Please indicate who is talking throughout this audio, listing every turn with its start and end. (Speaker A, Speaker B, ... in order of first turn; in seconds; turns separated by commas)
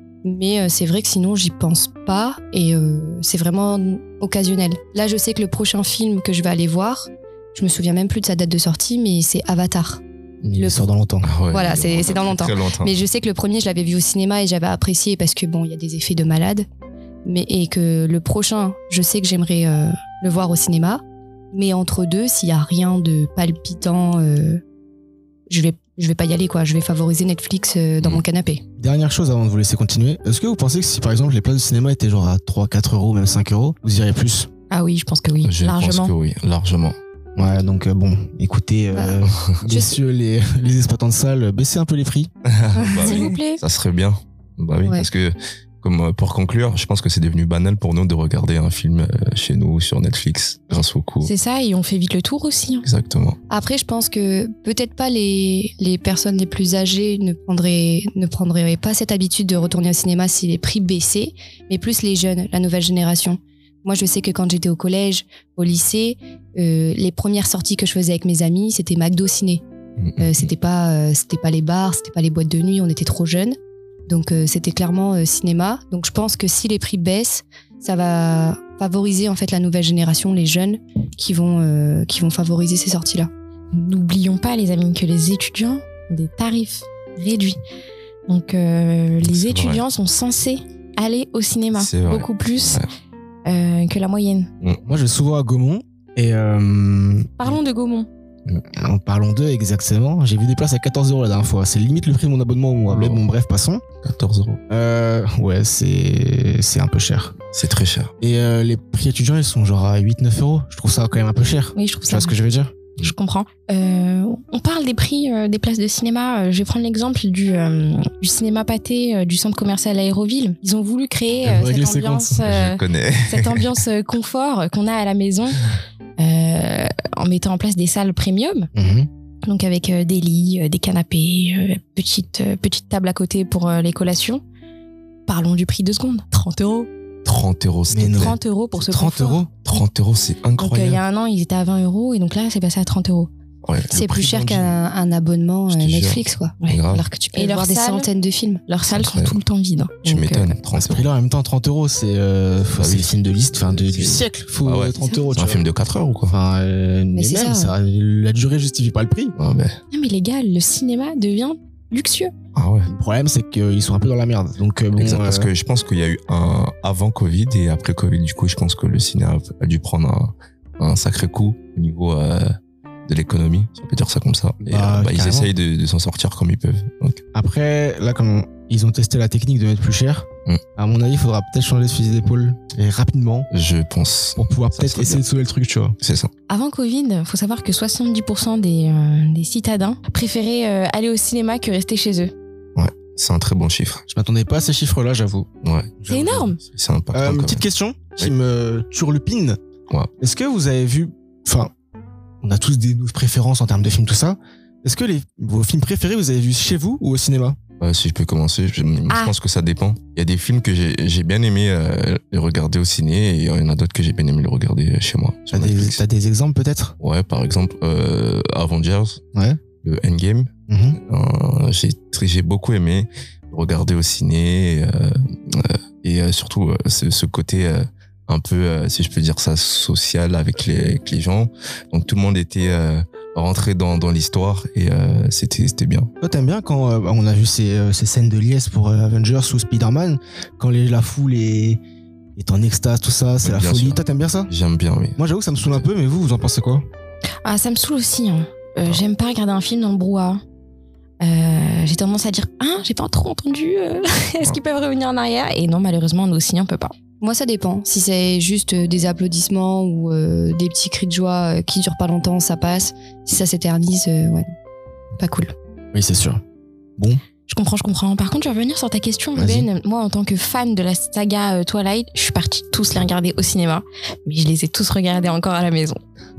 Speaker A: 0.2-10.0, Speaker B: 10.4-11.3, Speaker A: 10.6-10.9, Speaker C: 11.2-13.0, Speaker A: 11.5-16.7, Speaker A: 17.2-24.6, Speaker A: 25.5-28.6, Speaker B: 28.8-34.5, Speaker D: 34.7-36.1, Speaker C: 35.4-37.0, Speaker B: 37.4-42.3, Speaker A: 38.9-40.0, Speaker C: 42.5-51.3, Speaker A: 42.8-43.4, Speaker D: 43.0-43.6, Speaker A: 44.8-45.1, Speaker D: 51.2-52.9, Speaker C: 52.9-53.4, Speaker A: 53.5-69.6, Speaker C: 70.0-70.5, Speaker A: 70.2-73.6, Speaker A: 74.1-83.3, Speaker D: 83.7-87.6, Speaker D: 88.3-92.8, Speaker C: 89.2-89.8, Speaker C: 91.8-92.9, Speaker D: 93.5-94.5, Speaker B: 94.8-97.6, Speaker D: 97.4-98.1, Speaker B: 98.7-103.8, Speaker C: 102.9-103.2, Speaker C: 104.0-104.6, Speaker B: 104.7-107.4, Speaker C: 107.5-108.1, Speaker B: 108.2-112.7, Speaker D: 111.8-112.4, Speaker D: 113.0-125.7, Speaker B: 121.4-122.5, Speaker C: 122.4-123.7, Speaker D: 126.2-128.7, Speaker B: 128.8-129.1, Speaker D: 129.4-134.4, Speaker D: 135.3-136.9, Speaker C: 137.2-138.4, Speaker B: 137.9-139.5, Speaker D: 138.1-139.4, Speaker C: 139.7-141.0, Speaker D: 140.6-143.3, Speaker C: 143.6-144.6, Speaker A: 143.9-146.6, Speaker B: 144.0-144.6, Speaker C: 145.7-147.1, Speaker D: 146.6-148.1, Speaker A: 147.3-148.6, Speaker D: 148.7-150.5, Speaker C: 148.9-149.4, Speaker C: 150.1-151.1, Speaker B: 150.7-155.7, Speaker C: 152.8-156.4, Speaker B: 156.3-159.3, Speaker A: 157.1-157.8, Speaker C: 159.4-159.8, Speaker D: 159.9-162.3, Speaker C: 162.6-162.9, Speaker B: 162.9-165.5, Speaker C: 165.0-172.6, Speaker C: 173.1-177.2, Speaker B: 174.6-175.5, Speaker B: 177.3-183.5, Speaker C: 183.5-185.2, Speaker B: 184.4-186.0, Speaker C: 186.0-186.3, Speaker D: 186.5-192.3, Speaker C: 192.8-194.0, Speaker B: 194.1-196.5, Speaker C: 195.6-195.9, Speaker D: 196.1-196.6, Speaker C: 196.6-197.6, Speaker B: 197.1-199.6, Speaker B: 200.2-201.7, Speaker B: 202.4-207.6, Speaker C: 207.8-216.0, Speaker D: 209.1-209.3, Speaker B: 215.5-216.9, Speaker C: 217.0-219.2, Speaker B: 219.3-219.6, Speaker C: 219.8-236.1, Speaker B: 220.7-221.0, Speaker B: 236.2-241.8, Speaker B: 242.4-244.5, Speaker C: 243.4-245.8, Speaker B: 245.2-246.8, Speaker D: 247.4-250.4, Speaker D: 251.2-256.9, Speaker A: 257.2-264.5, Speaker A: 265.2-265.5, Speaker B: 265.9-266.4, Speaker B: 267.0-267.2, Speaker D: 267.5-276.0, Speaker B: 269.4-269.7